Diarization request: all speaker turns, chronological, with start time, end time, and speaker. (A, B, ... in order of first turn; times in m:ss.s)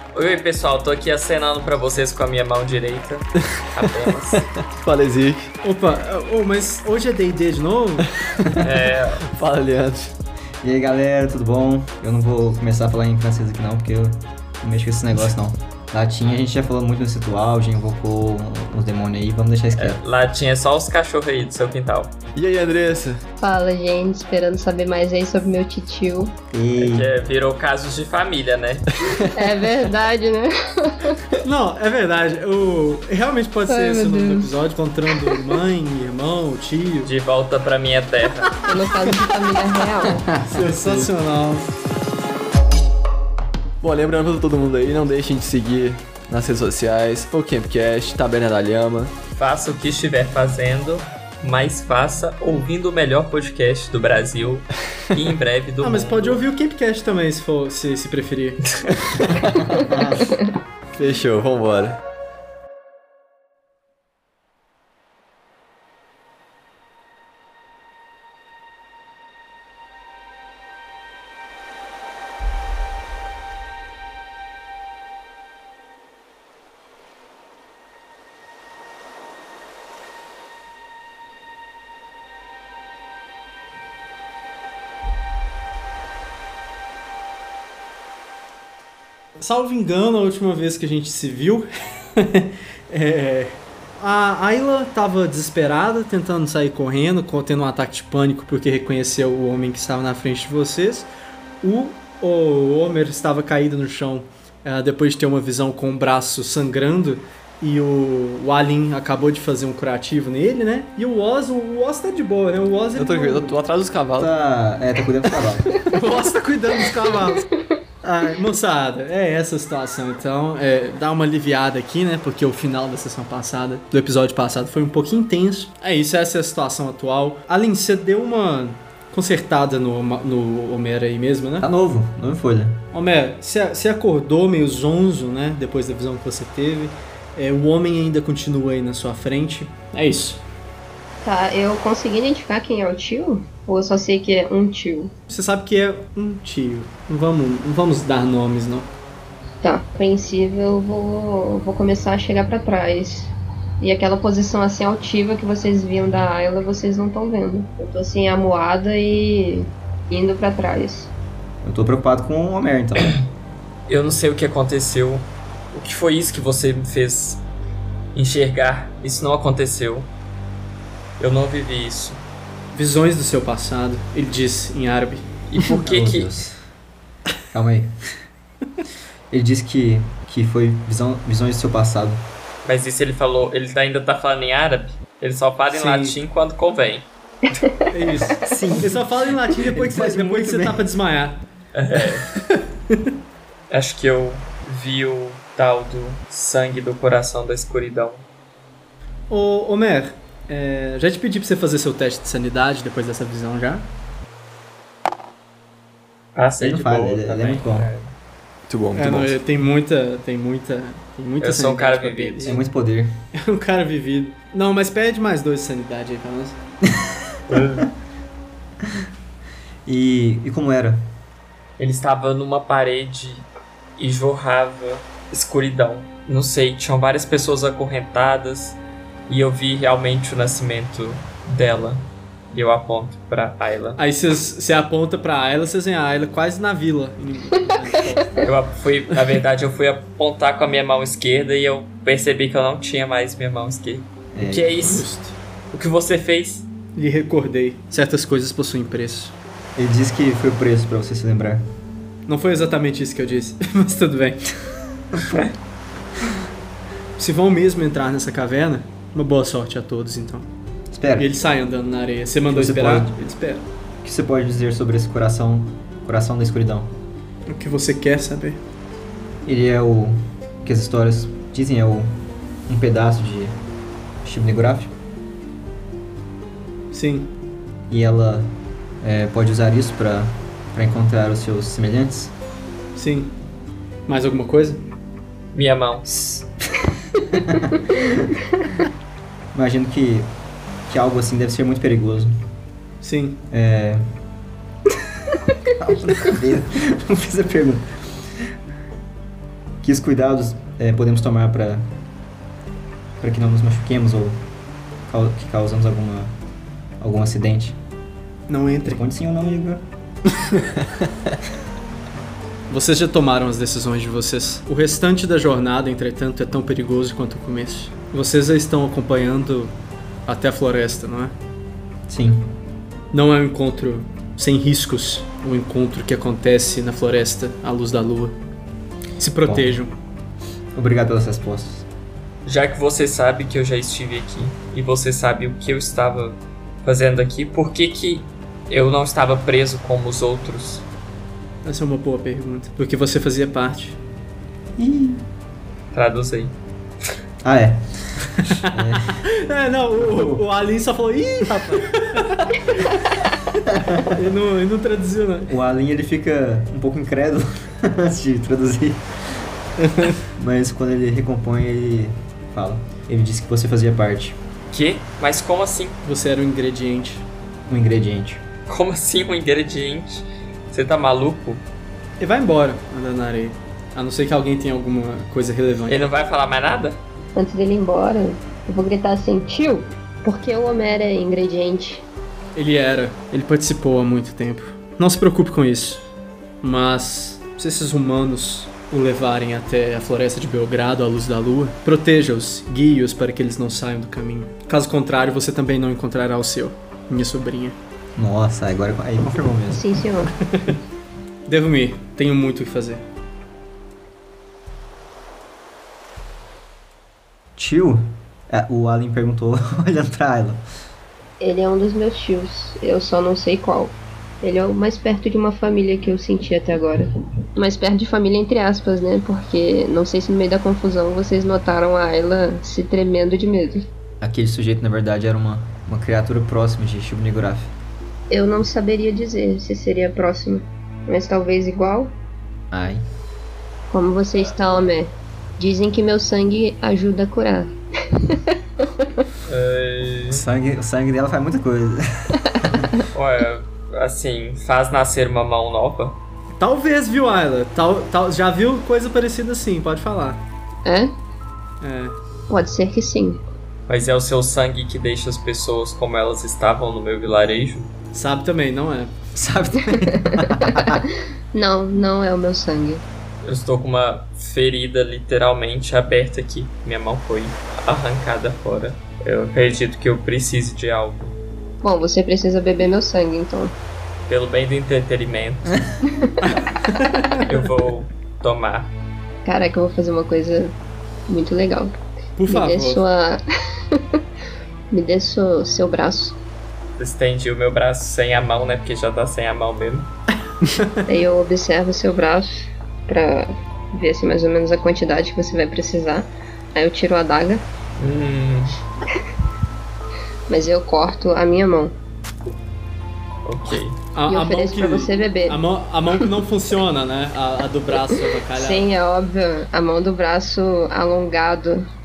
0:00.1-0:04.5 A
0:04.3-0:05.5 B
0:05.6-0:08.1 C
0:08.6-0:09.2 A
0:09.3-0:10.1 B
0:10.6-0:20.0 D
0:19.8-0:22.1 A
0:22.3-0:23.2 B
0:23.4-0:26.3 E
0:26.5-0:27.1 D
0:26.8-0:28.9 A
0:29.1-0:29.5 B
0:29.3-0:31.2 E
0:31.4-0:37.1 C
0:33.7-0:34.5 E
0:35.1-0:35.5 E
0:37.0-0:38.6 A
0:38.4-0:39.3 C
0:38.6-0:40.3 E
0:40.2-0:41.1 D
0:40.5-0:41.7 C
0:43.8-0:49.1 B
0:49.4-0:56.4 A
0:55.8-0:59.1 C
0:59.1-0:59.6 B
0:59.7-1:00.3 D
1:00.9-1:02.0 B
1:29.4-1:41.1 C
1:41.6-1:53.5 C
1:52.9-1:54.3 B
1:54.1-1:55.8 D
1:55.8-1:57.5 C
1:58.0-2:11.7 C
2:11.6-2:12.8 D
2:12.9-2:20.4 C
2:21.2-2:25.1 E
2:25.3-2:28.9 C
2:29.6-2:33.3 E
2:33.8-2:41.1 E
2:41.6-2:43.1 D
2:43.9-2:47.4 A
2:48.1-2:50.1 A
2:51.2-2:52.2 A
2:52.7-2:55.3 C
2:55.5-2:56.3 A
2:55.8-2:56.6 D
2:57.5-2:58.1 D
2:59.3-3:02.2 D
3:02.6-3:07.6 A
3:05.7-3:06.2 C
3:07.9-3:11.4 C
3:08.2-3:09.0 D
3:09.6-3:10.9 D
3:11.7-3:12.3 A
3:12.1-3:13.0 C
3:13.7-3:18.2 A
3:19.3-3:23.9 C
3:26.3-3:28.1 A
3:26.6-3:27.9 D
3:28.7-3:29.4 B
3:29.0-3:32.6 C
3:31.4-3:32.6 A
3:32.4-3:33.1 D
3:33.3-3:36.6 C
3:36.8-3:37.5 D
3:37.5-3:37.9 A
3:39.8-3:41.0 D
3:41.8-3:54.0 A
3:54.0-3:58.5 C
3:58.4-4:05.1 A
4:04.3-4:05.0 D
4:04.8-4:05.3 C
4:05.7-4:06.7 A
4:06.9-4:09.3 C
4:09.8-4:11.6 D
4:12.3-4:14.5 C
4:17.2-4:20.5 C
4:20.9-4:21.3 D
4:21.2-4:23.7 C
4:22.5-4:23.1 D
4:24.0-4:26.9 D
4:27.5-4:28.6 C
4:29.4-4:33.6 D
4:34.2-4:34.9 D
4:36.9-4:37.3 C
4:37.9-4:42.3 D
4:42.9-4:43.3 C
4:44.1-4:44.8 C
4:45.5-4:46.1 A
4:46.0-4:48.3 D
4:49.5-4:50.3 D
4:50.9-4:52.4 D
4:53.0-4:53.4 C
4:53.5-4:54.0 D
4:55.8-4:58.5 D
4:59.8-5:01.9 D
5:03.2-5:04.4 D
5:05.1-5:06.3 D
5:07.0-5:07.8 D
5:08.5-5:09.0 C
5:08.8-5:09.8 D
5:12.7-5:19.7 C
5:20.3-5:21.3 C
5:22.1-5:22.5 D
5:23.1-5:28.4 C
5:29.2-5:29.9 C
5:29.4-5:29.8 D
5:30.7-5:31.9 D
5:32.4-5:40.8 A
5:41.6-5:44.0 C
5:44.8-5:45.2 D
5:45.9-5:46.5 A
5:47.4-5:49.2 D
5:48.5-5:53.0 C
5:50.0-5:50.4 D
5:53.7-5:54.2 D
5:54.0-5:55.5 C
5:55.5-5:59.2 D
5:59.8-6:00.2 C
6:00.3-6:04.4 D
6:04.7-6:06.0 A
6:06.0-6:07.2 C
6:07.7-6:08.4 D
6:08.7-6:11.6 A
6:12.2-6:16.1 C
6:15.9-6:17.0 A
6:17.3-6:22.0 E
6:22.5-6:26.0 C
6:26.6-6:37.8 C
6:38.2-6:39.8 D
6:39.7-6:40.3 E
6:40.4-6:40.8 C
6:41.5-6:43.0 C
6:47.6-6:50.6 D
6:51.4-7:03.9 E
7:04.2-7:07.7 D
7:08.3-7:12.1 E
7:12.7-7:13.0 D
7:13.9-7:18.9 E
7:19.4-7:20.4 A
7:20.3-7:22.9 D
7:23.1-7:26.2 A
7:26.6-7:30.4 C
7:30.8-7:31.1 E
7:31.8-7:32.2 C
7:32.5-7:33.4 E
7:33.9-7:37.9 A
7:38.1-7:39.1 C
7:39.3-7:41.0 D
7:40.1-7:41.0 E
7:41.5-7:43.0 E
7:43.4-7:51.3 A
7:51.8-7:53.7 E
7:54.3-7:55.9 A
7:56.4-7:57.5 C
7:57.4-7:58.9 A
7:59.4-8:00.7 E
8:01.3-8:01.9 E
8:02.4-8:03.0 C
8:02.5-8:04.2 E
8:04.9-8:06.4 E
8:07.0-8:10.1 A
8:11.0-8:17.6 E
8:18.0-8:18.7 A
8:20.5-8:21.9 E
8:23.4-8:24.0 A
8:24.1-8:28.9 C
8:24.3-8:25.6 E
8:28.1-8:31.8 E